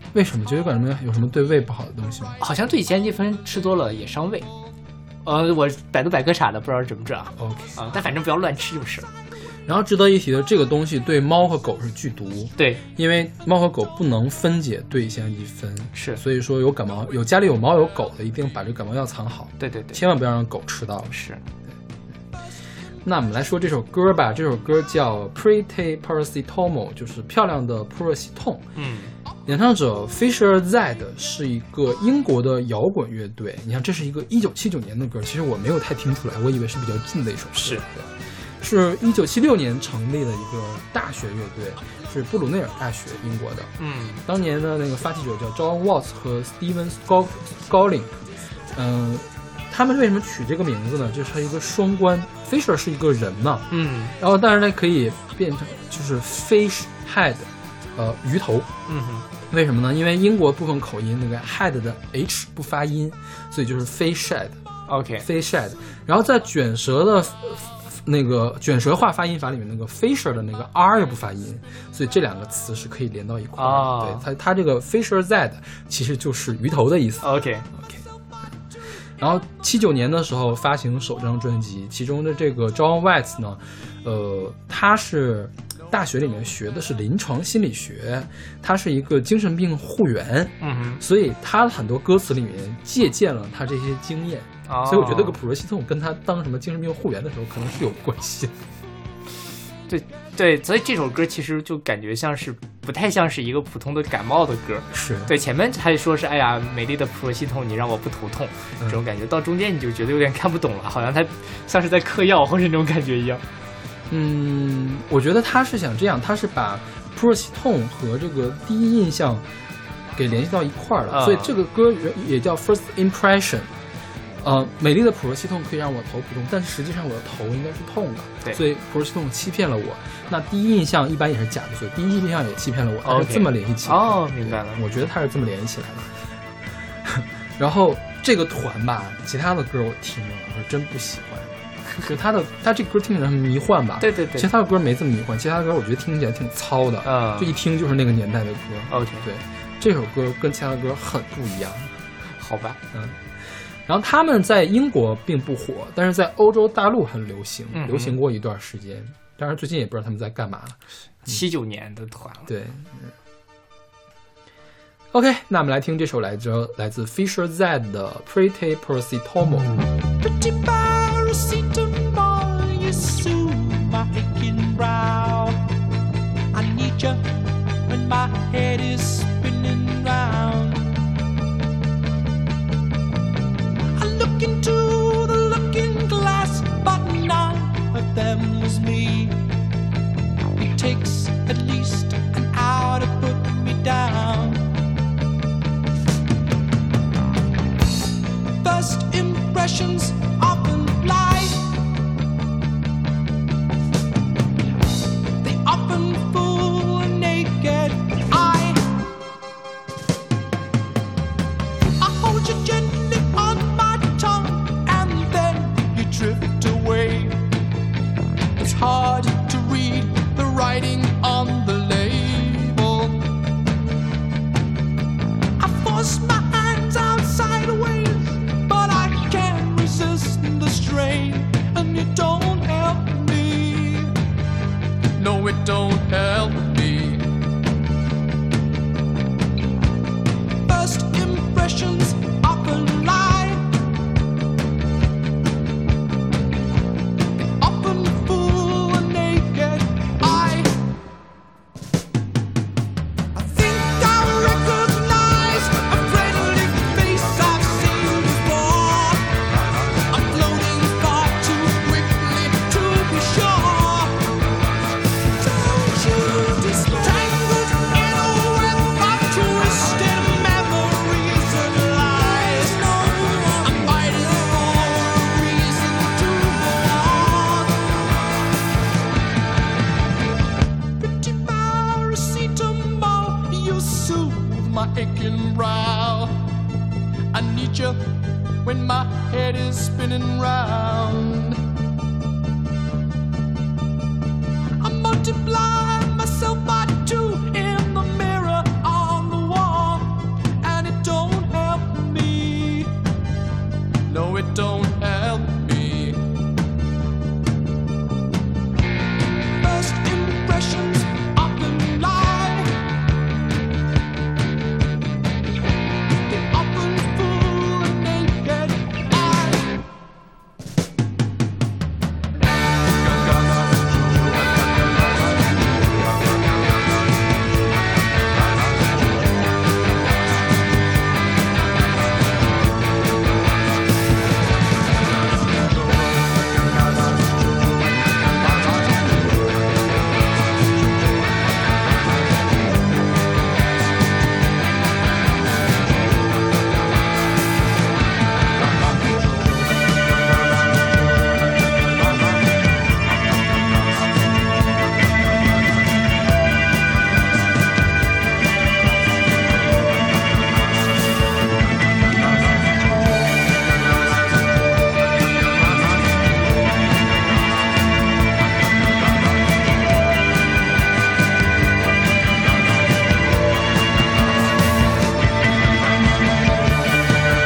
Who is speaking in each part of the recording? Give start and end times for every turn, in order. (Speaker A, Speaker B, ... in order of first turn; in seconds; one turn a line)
Speaker A: 0.1-2.4
Speaker B: 2.4-4.5
Speaker B: 5.2-9.1
Speaker A: 7.4-7.9
Speaker A: 9.7-21.2
Speaker B: 12.6-12.8
Speaker B: 15.9-16.2
Speaker B: 19.6-20.0
Speaker B: 21.1-21.4
Speaker A: 23.0-28.7
Speaker B: 28.8-29.1
Speaker A: 29.4-43.7
Speaker B: 37.6-37.8
Speaker B: 43.8-44.2
Speaker A: 44.2-48.2
Speaker A: 48.7-58.7
Speaker B: 53.7-54.1
Speaker B: 58.9-59.3
Speaker A: 59.5-64.6
Speaker B: 64.9-65.2
Speaker A: 65.2-78.0
Speaker B: 73.6-74.3
Speaker B: 77.2-77.7
Speaker A: 79.2-98.5
Speaker B: 90.6-91.0
Speaker B: 94.7-95.4
Speaker B: 99.9-113.4
Speaker A: 104.9-105.3
Speaker A: 114.1-119.5
Speaker A: 120.1-123.7
Speaker B: 121.1-121.5
Speaker A: 124.4-136.2
Speaker B: 133.0-134.8
Speaker A: 137.0-151.9
Speaker B: 144.0-144.5
Speaker B: 147.0-147.6
Speaker B: 148.9-149.2
Speaker B: 152.4-152.8
Speaker A: 152.9-153.2
Speaker A: 153.8-161.4
Speaker B: 157.7-158.2
Speaker B: 161.2-162.5
Speaker A: 162.5-163.1
Speaker A: 165.1-169.7
Speaker C: 170.2-175.6
Speaker C: 176.5-180.9
Speaker C: 183.9-189.4
Speaker C: 190.6-194.6
Speaker C: 198.6-201.7
Speaker C: 205.4-208.9
Speaker C: 212.0-217.5
Speaker C: 218.6-223.3
Speaker C: 225.6-234.1
Speaker C: 235.1-237.3
Speaker C: 240.6-243.7
Speaker C: 247.6-250.7
Speaker C: 253.3-264.4
Speaker C: 265.4-278.1
Speaker C: 281.0-286.4
Speaker C: 287.3-288.0
Speaker C: 288.6-291.6
Speaker C: 294.8-302.9
Speaker C: 304.1-306.2
Speaker C: 309.6-312.8
Speaker C: 316.2-319.7
Speaker C: 323.0-326.5